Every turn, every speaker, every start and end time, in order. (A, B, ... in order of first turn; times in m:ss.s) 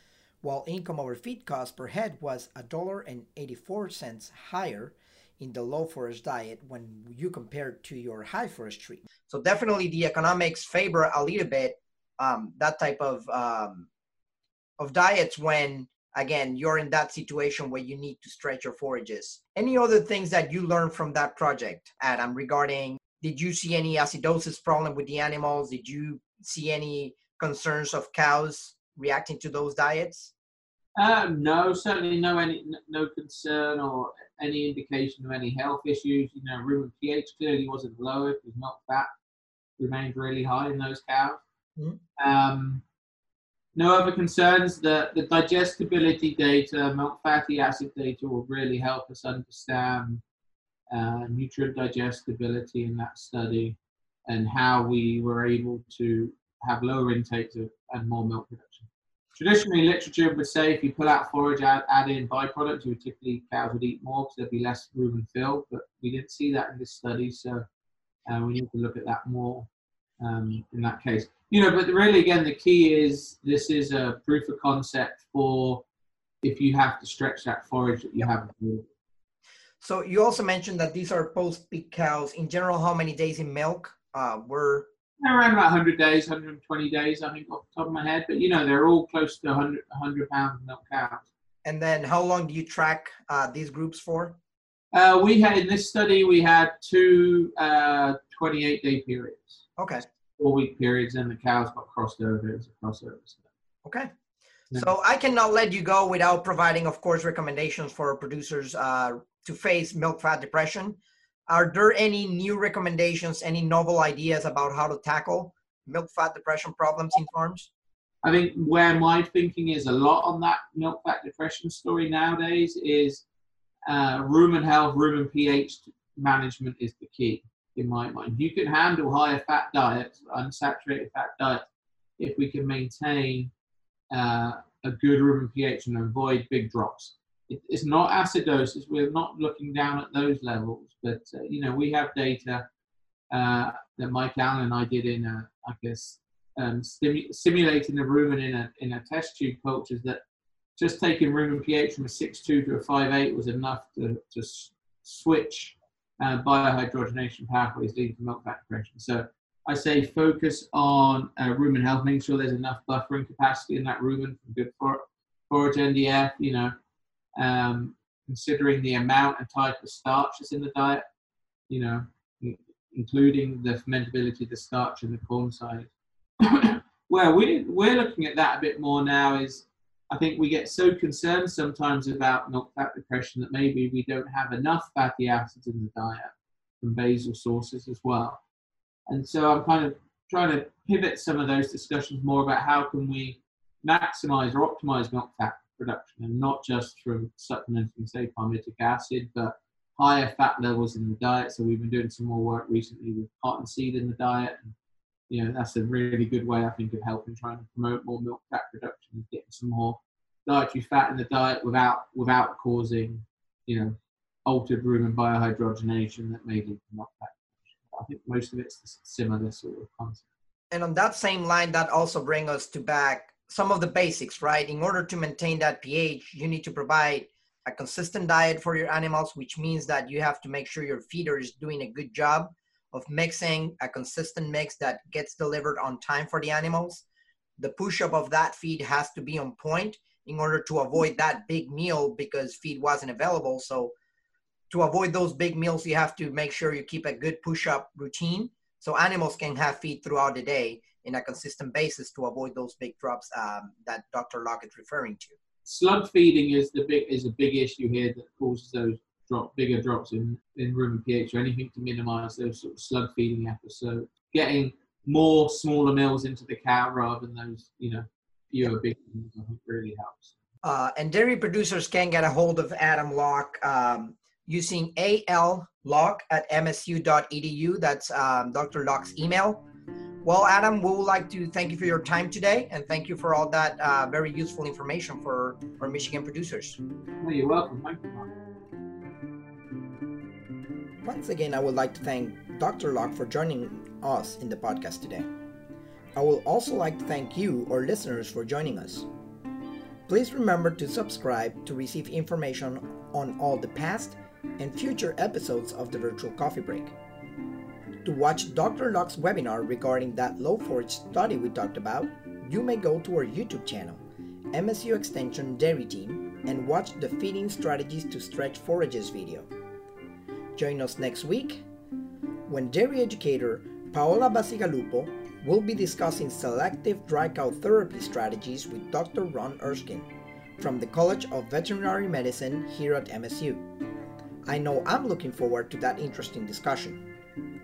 0:00.4-0:13.9 A
0:14.8-0:30.3 A
0:31.0-0:39.1 B
0:39.8-0:41.4 B
0:42.2-0:42.8 B
0:43.8-0:50.2 B
0:50.9-1:07.6 B
1:08.2-1:09.7 B
1:10.2-1:15.8 B
1:16.4-1:18.9 B
1:19.8-1:24.9 A
1:25.2-1:31.3 B
1:31.6-1:34.4 A
1:34.9-1:39.6 B
1:39.8-1:40.0 A
1:40.4-1:43.4 B
1:43.8-1:44.1 A
1:44.7-1:57.7 A
1:58.2-2:03.2 B
2:03.9-2:11.6 B
2:12.2-2:13.5 B
2:14.1-2:22.6 B
2:23.3-2:30.2 B
2:30.8-2:46.7 B
2:47.4-2:51.0 B
2:51.7-3:08.4 B
3:09.1-3:24.7 B
3:25.3-3:40.3 B
3:40.7-3:57.0 A
3:57.6-4:03.9 A
4:04.7-4:15.3 A
4:15.6-4:30.3 B
4:30.6-4:39.6 A
4:40.2-4:46.8 A
4:47.2-4:48.3 B
4:51.0-4:55.2 A
4:56.2-4:59.0 A
5:00.1-5:06.9 A
5:08.0-5:14.0 A
5:14.5-5:19.5 A
5:20.5-5:21.6 A
5:22.5-5:33.6 A
5:34.4-5:37.0 A